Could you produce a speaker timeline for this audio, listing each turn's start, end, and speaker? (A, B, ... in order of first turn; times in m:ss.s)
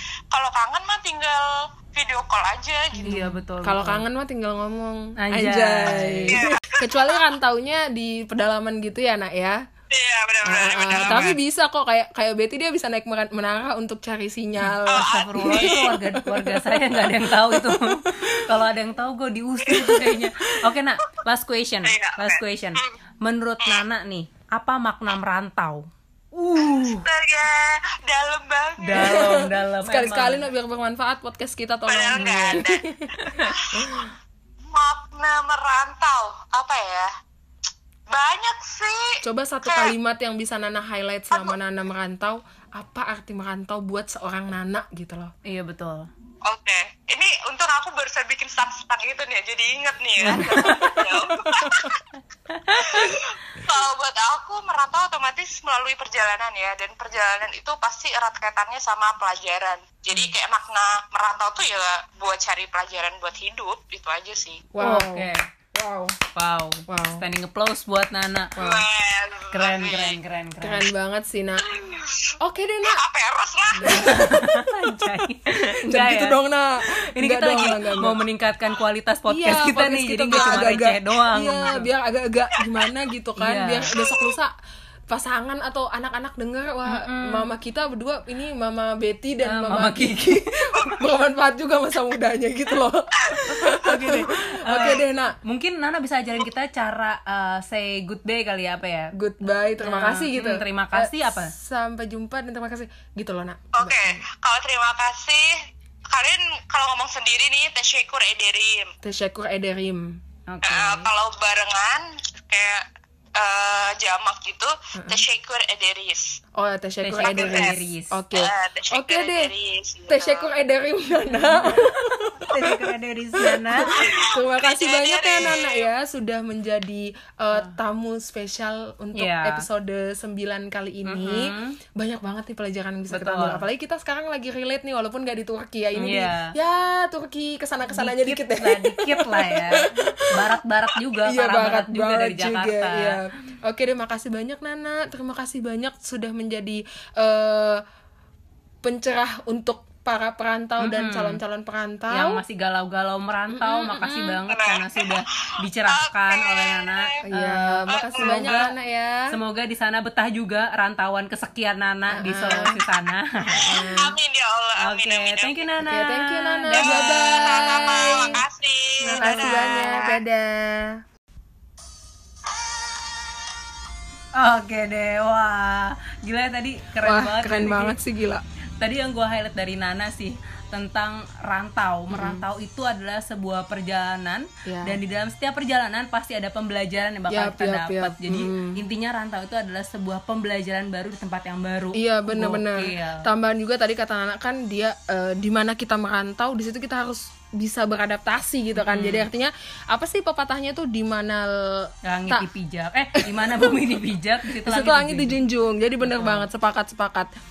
0:00.3-0:03.2 A
0:03.0-0:09.6 B
0:03.0-0:04.0 C
0:05.2-0:06.4 C
0:06.3-0:07.3 A
0:09.9-0:11.4 A
0:10.4-0:18.6 B
0:11.0-0:11.3 C
0:14.6-0:27.1 C
0:14.9-0:15.9 A
0:19.7-0:20.0 A
0:19.8-0:20.1 B
0:21.8-0:22.9 A
0:26.6-0:29.4 A
0:28.8-0:30.5 C
0:28.9-0:34.2 B
0:31.9-0:32.8 A
0:32.2-0:32.6 C
0:33.2-0:33.5 C
0:33.4-0:34.0 A
0:34.7-0:37.1 A
0:38.1-0:39.9 A
0:39.2-0:45.3 B
0:45.4-0:46.1 C
0:46.4-0:52.0 A
0:50.2-0:51.1 C
0:50.4-0:51.9 B
0:52.5-0:53.2 C
0:52.7-1:04.7 A
1:04.7-1:06.2 B
1:04.8-1:05.5 C
1:06.4-1:08.5 C
1:06.9-1:07.2 B
1:08.6-1:08.9 B
1:08.6-1:10.2 A
1:09.5-1:10.8 C
1:10.6-1:11.7 B
1:11.6-1:14.2 A
1:12.4-1:13.0 B
1:13.8-1:16.4 C
1:13.8-1:14.7 B
1:15.8-1:18.2 B
1:17.2-1:21.9 C
1:19.3-1:24.5 B
1:20.3-1:20.6 A
1:22.6-1:22.9 A
1:23.4-1:23.9 C
1:23.9-1:24.4 A
1:25.1-1:35.4 B
1:26.8-1:27.5 C
1:29.4-1:30.4 C
1:30.8-1:31.0 A
1:33.2-1:33.6 A
1:33.7-1:39.1 C
1:39.2-1:44.2 B
1:39.8-1:41.5 C
1:43.8-1:45.5 A
1:46.1-1:48.9 A
1:49.0-1:50.2 B
1:50.5-1:51.1 C
1:50.6-1:56.4 A
1:55.0-1:55.2 B
1:56.6-1:59.5 B
1:57.0-1:58.2 C
1:57.2-1:57.8 A
1:58.4-2:00.5 A
2:00.1-2:20.6 B
2:01.3-2:04.0 C
2:04.0-2:05.9 A
2:09.2-2:09.7 C
2:11.1-2:11.8 C
2:13.1-2:13.6 C
2:16.0-2:16.5 C
2:17.9-2:23.2 C
2:21.1-2:27.8 B
2:28.8-2:32.4 B
2:30.8-2:31.4 C
2:32.1-2:38.7 C
2:33.5-2:34.4 B
2:34.5-2:35.2 A
2:35.9-2:37.1 A
2:37.3-2:39.3 B
2:37.9-2:38.6 A
2:39.3-2:43.7 C
2:42.1-2:42.8 B
2:43.5-2:44.2 B
2:43.6-2:45.7 A
2:44.8-2:47.7 C
2:45.8-2:48.4 B
2:46.8-2:50.2 A
2:49.0-2:49.8 C
2:49.1-2:51.0 B
2:54.4-2:58.0 C
2:57.0-2:58.4 B
2:58.8-3:13.3 C
3:02.1-3:02.5 B
3:04.7-3:05.0 B
3:07.3-3:08.8 B
3:11.9-3:22.5 B
3:18.8-3:19.3 C
3:22.0-3:25.4 C
3:23.2-3:23.8 B
3:24.6-3:27.3 B
3:26.0-3:26.5 C